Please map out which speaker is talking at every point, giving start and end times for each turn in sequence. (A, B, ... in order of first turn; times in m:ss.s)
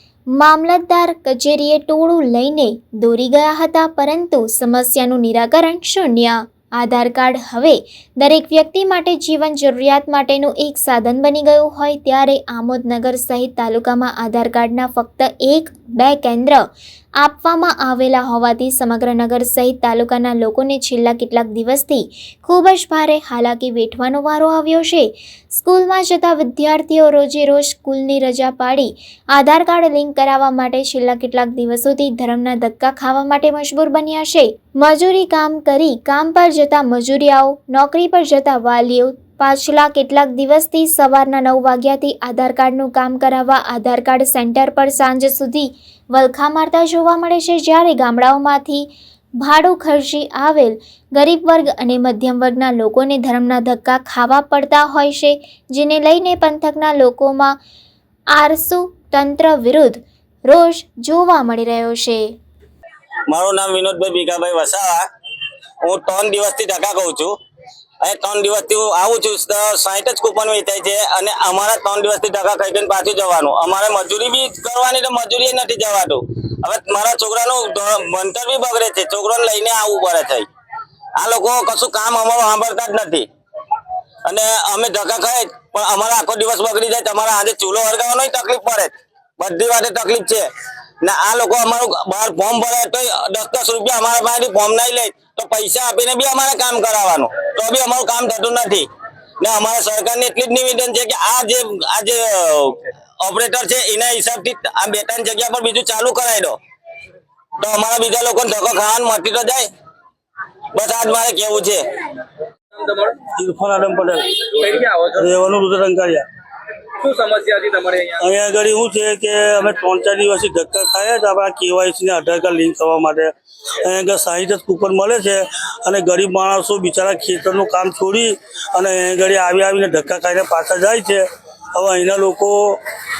0:00.4-0:16.6 A
0:17.2-0:48.9 A
0:49.4-0:57.5 A
0:58.3-1:02.3 A
1:03.3-1:05.0 B
1:05.8-1:07.3 B
1:08.0-1:20.5 B
1:21.2-1:23.3 B
1:24.2-1:30.4 B
1:31.0-1:38.9 B
1:39.4-1:46.6 B
1:47.6-1:49.7 B
1:50.7-1:51.8 B
1:52.7-1:53.1 C
1:53.4-1:54.2 D
1:54.6-1:55.3 C
1:55.2-1:56.2 D
1:57.0-1:58.2 C
1:58.2-2:03.3 D
2:03.8-2:12.8 D